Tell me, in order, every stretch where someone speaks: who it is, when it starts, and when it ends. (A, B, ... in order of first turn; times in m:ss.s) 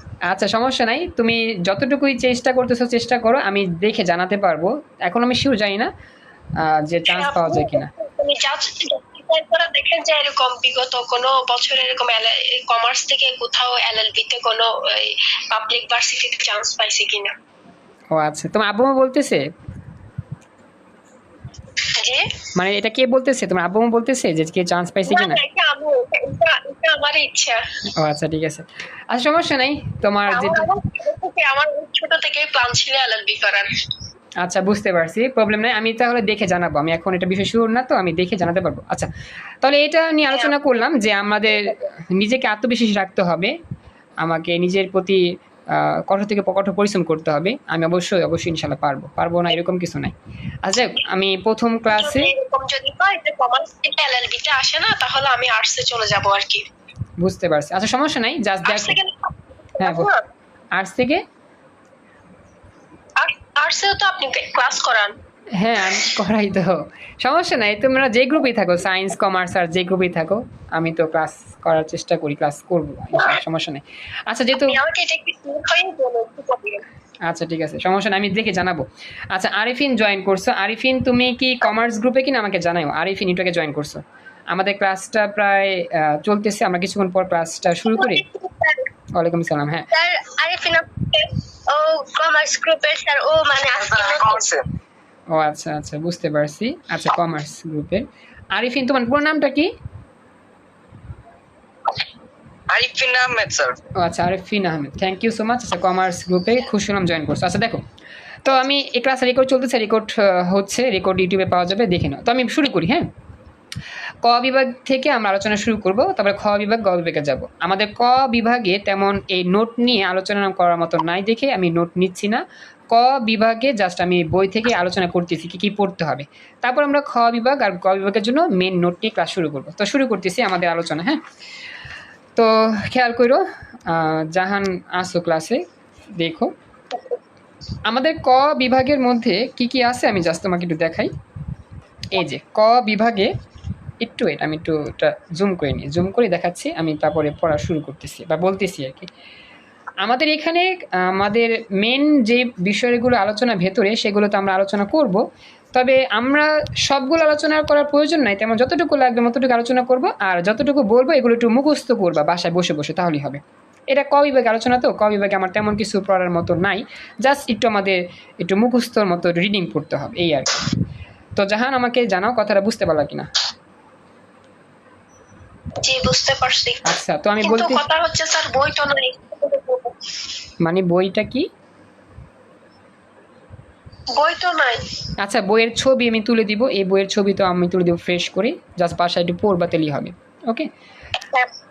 0:00.3-0:05.9 A
0:06.6-0:07.9 A
0:07.1-0:17.3 B
0:18.1-0:19.4 A
0:21.9-0:22.3 B
0:22.6-0:25.4 A
0:25.0-0:27.6 B
0:27.9-0:30.7 A
0:30.3-0:33.7 B
0:34.4-0:39.1 A
0:39.6-0:43.5 A
0:40.3-0:40.5 B
0:44.2-0:52.3 A
0:51.9-0:56.6 B
0:57.2-0:59.0 A
0:58.6-1:00.2 B
0:59.8-1:00.1 A
1:00.7-1:01.2 A
1:03.2-1:05.1 B
1:05.6-1:14.8 A
1:14.5-1:16.8 B
1:17.3-1:28.2 A
1:27.8-1:28.8 B
1:29.1-1:29.9 A
1:30.0-1:34.4 B
1:33.7-1:34.6 C
1:35.3-1:39.7 A
1:42.7-1:43.8 C
1:43.9-1:47.8 A
1:48.4-1:53.1 A
1:54.2-2:11.2 A
2:12.4-2:15.6 A
2:16.2-2:16.5 A
2:17.9-2:21.1 A
2:22.1-2:23.3 A
2:24.0-2:29.1 A
2:30.0-2:50.7 A
2:51.4-2:53.3 A
2:55.8-3:00.1 B
2:56.8-2:57.8 A
3:00.6-3:01.5 A
3:04.1-3:04.9 B
3:05.2-3:10.7 A
3:11.2-3:11.5 B